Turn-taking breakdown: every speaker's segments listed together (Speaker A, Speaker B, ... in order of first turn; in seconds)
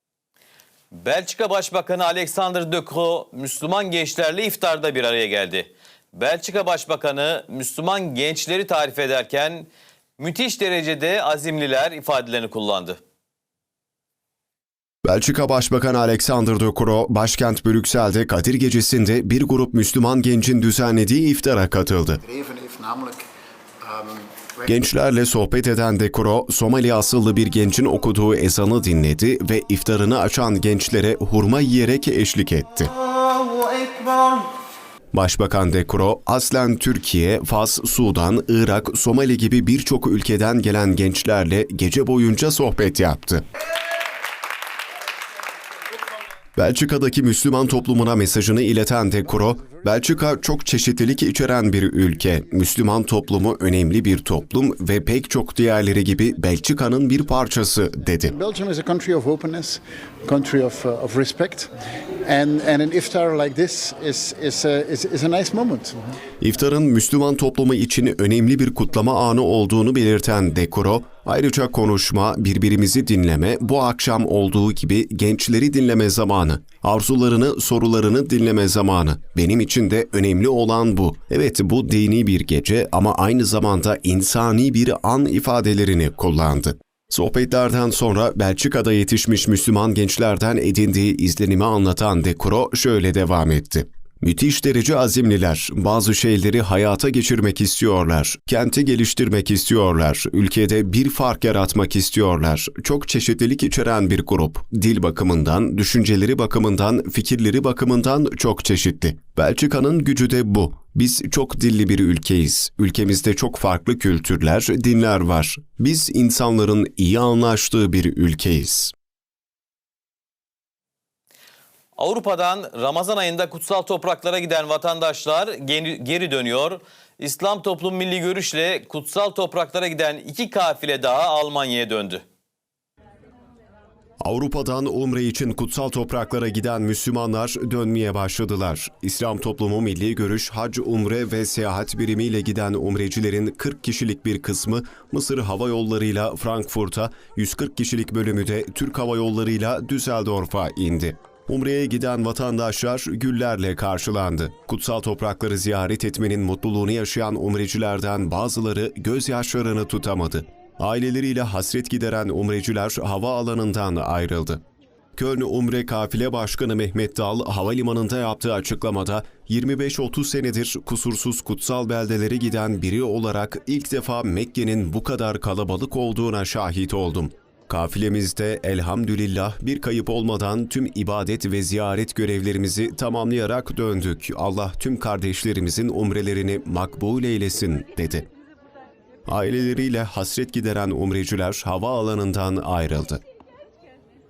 Speaker A: 0.9-13.0, 122.0-132.2
Speaker B: 15.1-22.2, 24.7-32.9, 35.1-43.4, 46.6-58.4, 66.4-118.9, 134.2-164.6, 165.2-188.3, 189.3-193.2
Speaker C: 22.2-23.3, 23.8-24.7, 58.3-61.7, 62.2-66.0